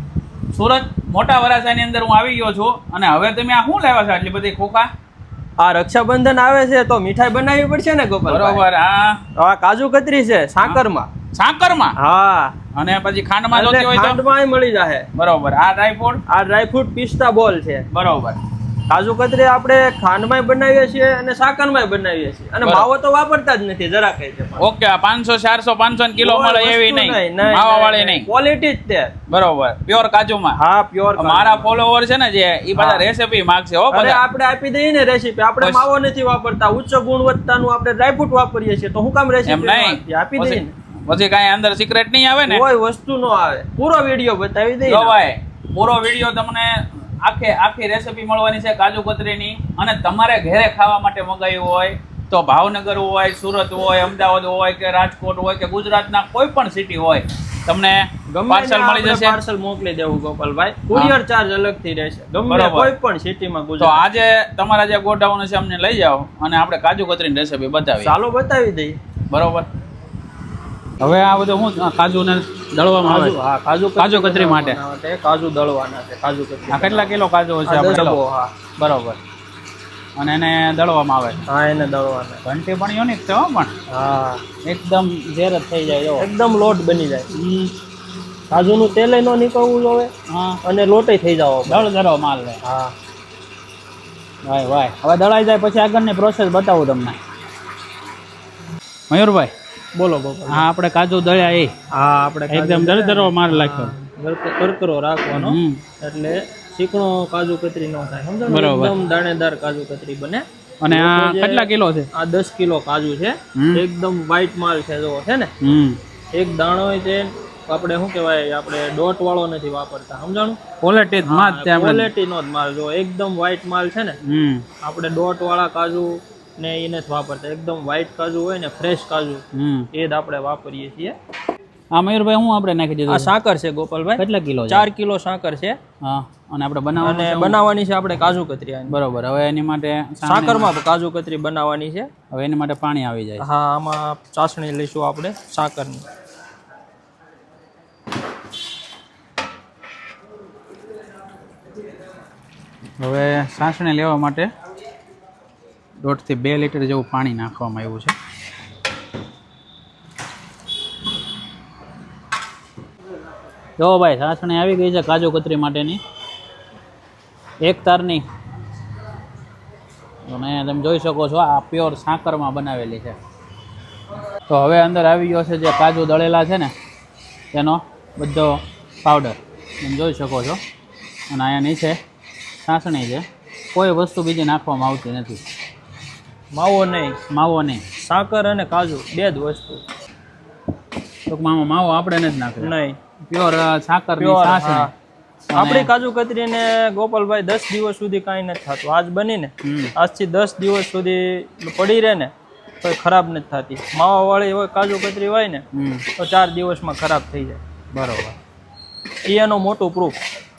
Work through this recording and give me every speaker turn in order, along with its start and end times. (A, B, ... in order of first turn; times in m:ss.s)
0:00.5-0:04.9 A
0:05.6-0:08.6 B
0:08.3-0:09.2 A
0:09.3-0:11.1 B
0:11.3-0:11.9 A
0:12.0-0:12.6 B
0:12.7-0:14.2 A
0:13.5-0:15.1 B
0:15.1-0:16.2 A
0:16.3-0:17.9 B
0:17.9-0:18.4 A
0:18.9-0:24.7 B
0:22.6-0:22.9 A
0:24.6-0:28.3 A
0:26.2-0:29.1 B
0:29.3-0:30.6 A
0:30.5-0:31.7 B
0:31.2-0:34.2 A
0:32.8-0:33.0 B
0:33.9-0:40.7 B
0:35.6-0:35.9 A
0:39.4-0:42.7 A
0:42.4-0:45.2 B
0:44.8-0:59.4 A
0:58.3-1:04.0 B
1:02.5-1:02.9 A
1:03.8-1:08.1 A
1:08.0-1:09.0 B
1:09.3-1:09.7 A
1:11.0-1:13.4 A
1:13.0-1:17.1 B
1:14.0-1:14.8 A
1:16.7-1:18.2 A
1:17.6-1:18.5 B
1:18.8-1:19.2 A
1:20.2-1:21.4 A
1:21.5-1:22.4 B
1:22.4-1:23.7 A
1:23.9-1:24.4 B
1:24.6-1:26.3 A
1:26.2-1:27.3 B
1:27.3-1:27.7 A
1:28.5-1:30.1 B
1:30.3-1:30.6 A
1:30.6-1:31.9 B
1:31.7-1:32.6 A
1:32.6-1:32.9 B
1:34.4-1:37.2 A
1:39.1-1:39.5 A
1:39.9-1:40.7 B
1:40.5-1:41.7 A
1:41.9-1:55.5 B
1:42.5-1:43.9 A
1:45.3-1:45.8 A
1:48.4-1:48.9 A
1:50.8-1:52.1 A
1:53.5-1:53.8 A
1:55.6-1:56.0 A
1:56.3-2:00.6 B
2:00.8-2:02.1 A
2:01.2-2:04.2 B
2:04.2-2:04.6 A
2:04.8-2:11.2 B
2:09.5-2:09.9 A
2:11.9-2:13.3 A
2:13.1-2:15.8 B
2:14.2-2:14.9 A
2:16.0-2:17.6 A
2:17.0-2:18.9 B
2:18.9-2:20.7 A
2:20.2-2:22.1 B
2:22.3-2:23.4 A
2:23.4-2:26.0 B
2:33.0-2:34.5 A
2:36.0-2:38.1 A
2:43.8-2:46.0 A
2:47.6-2:48.2 A
2:50.3-2:53.2 A
2:54.5-2:56.7 A
2:57.5-3:00.6 A
3:01.3-3:02.0 A
3:02.6-3:05.4 A
3:06.5-3:07.2 B
3:07.3-3:07.8 A
3:08.0-3:09.8 B
3:11.3-3:12.7 A
3:12.6-3:13.0 B
3:13.3-3:14.9 A
3:14.2-3:14.9 B
3:15.5-3:15.9 A
3:15.5-3:25.6 B
3:19.6-3:19.9 A
3:25.7-3:26.0 A
3:26.2-3:27.6 B
3:27.9-3:28.4 A
3:29.2-3:30.2 B